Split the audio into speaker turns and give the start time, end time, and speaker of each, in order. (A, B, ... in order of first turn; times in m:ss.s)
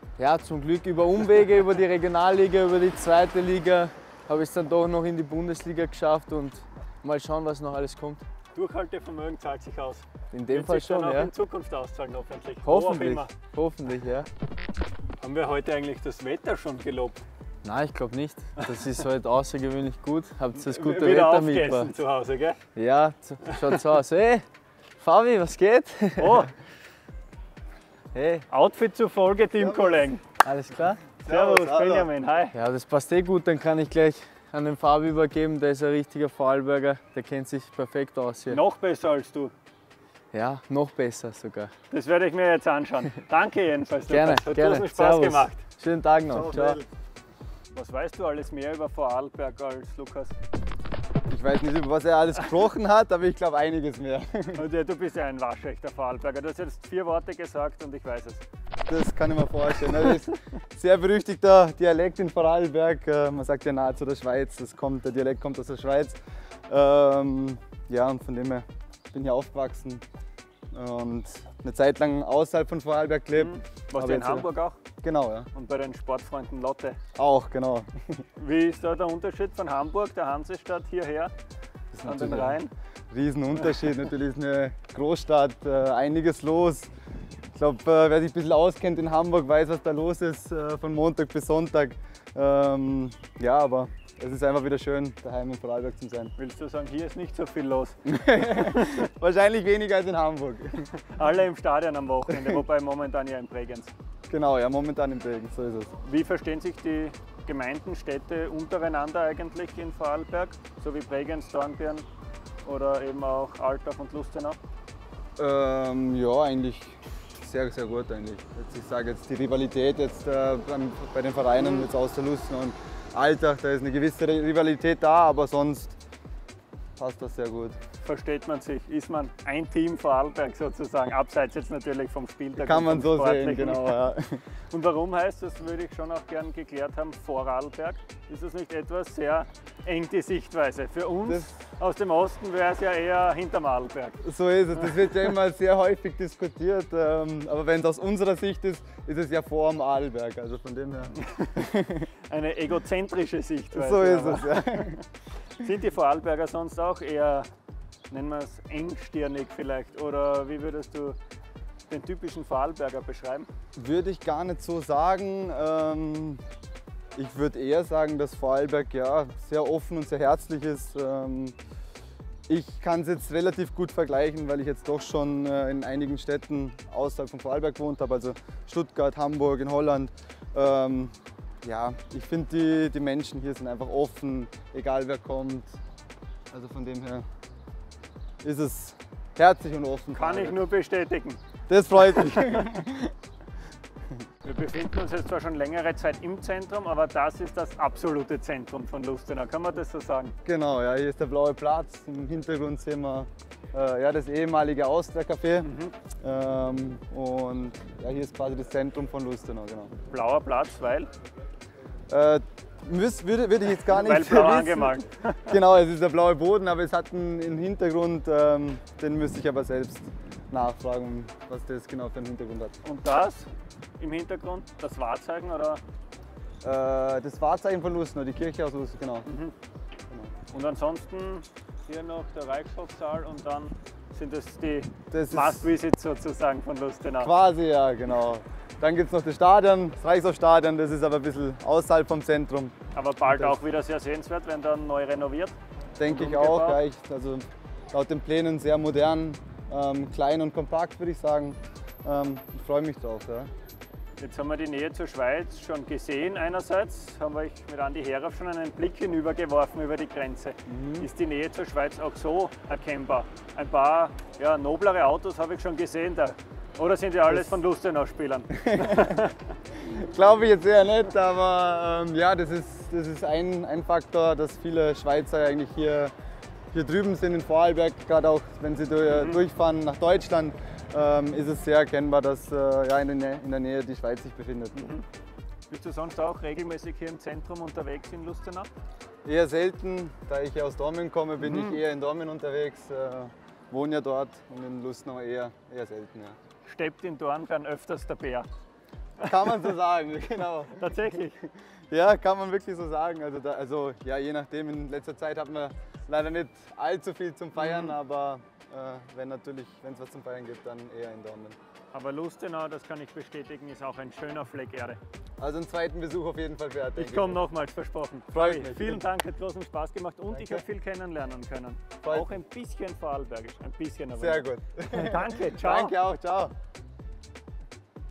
0:00.2-0:08.2 A
0:08.5-0:13.3 B
0:10.3-0:11.3 A
0:12.6-0:14.3 A
0:15.2-0:17.2 B
0:17.6-0:21.9 A
0:20.5-0:22.6 B
0:22.8-0:24.4 A
0:25.0-0:26.5 A
0:26.2-0:26.5 B
0:28.1-0:28.5 A
0:28.5-0:30.2 B
0:29.6-0:30.1 C
0:30.4-0:31.0 A
0:31.2-0:32.1 C
0:31.2-0:32.5 B
0:32.5-0:38.6 A
0:38.5-0:39.5 B
0:40.3-0:41.7 A
0:41.9-0:45.6 B
0:44.1-0:46.8 A
0:46.3-0:46.8 C
0:47.7-0:50.4 B
0:51.3-0:54.6 C
0:54.5-0:58.4 B
0:58.9-1:06.2 C
1:06.7-1:10.0 C
1:10.7-1:14.5 C
1:13.3-1:14.8 B
1:15.0-1:15.5 C
1:15.5-1:17.0 B
1:17.2-1:17.9 C
1:18.4-1:21.3 B
1:21.9-1:22.6 C
1:22.0-1:22.7 B
1:23.1-1:26.9 C
1:27.5-1:36.3 C
1:36.4-1:38.0 B
1:38.0-1:40.9 C
1:38.5-1:39.0 B
1:41.0-1:43.9 B
1:42.3-1:42.6 C
1:44.3-1:45.9 C
1:46.0-1:52.0 B
1:52.6-1:54.6 B
1:55.4-2:06.0 C
2:01.6-2:01.9 B
2:07.0-2:07.8 C
2:08.0-2:14.0 B
2:12.6-2:14.4 C
2:14.7-2:24.2 B
2:21.2-2:21.5 C
2:24.2-2:32.0 C
2:31.2-2:31.6 B
2:32.3-2:35.0 B
2:33.7-2:35.0 C
2:35.6-2:37.5 B
2:38.1-2:41.2 B
2:41.9-2:43.5 B
2:43.8-2:46.4 C
2:47.2-2:51.5 C
2:52.5-3:05.7 C
3:06.5-3:07.2 C
3:08.4-3:10.6 C
3:10.1-3:11.4 B
3:11.7-3:13.1 C
3:14.4-3:20.3 B
3:20.4-3:25.7 C
3:25.6-3:25.9 B
3:26.2-3:29.9 C
3:30.1-3:31.1 B
3:32.1-3:42.8 C
3:33.9-3:35.5 B
3:42.8-3:45.8 B
3:46.6-3:49.3 C
3:49.3-3:49.5 B
3:50.5-3:57.3 B
3:55.1-3:55.7 C
3:57.2-4:02.7 C
4:02.9-4:05.5 B
4:03.2-4:03.6 C
4:06.0-4:13.5 C
4:06.0-4:06.8 B
4:14.2-4:29.3 B
4:20.7-4:21.1 C
4:27.3-4:27.6 C
4:28.6-4:29.2 C
4:29.7-4:36.1 C
4:36.7-4:44.9 C
4:39.1-4:39.4 B
4:44.7-4:45.0 B
4:45.7-4:48.7 B
4:49.2-4:56.4 C
4:51.4-4:51.8 B
4:56.6-4:58.5 B
4:59.2-5:00.9 C
5:00.8-5:01.4 B
5:01.9-5:11.6 C
5:07.6-5:07.9 B
5:11.9-5:15.0 B
5:15.4-5:17.4 C
5:17.0-5:25.9 B
5:18.3-5:19.0 C
5:20.3-5:20.6 C
5:22.0-5:22.3 C
5:24.2-5:26.5 C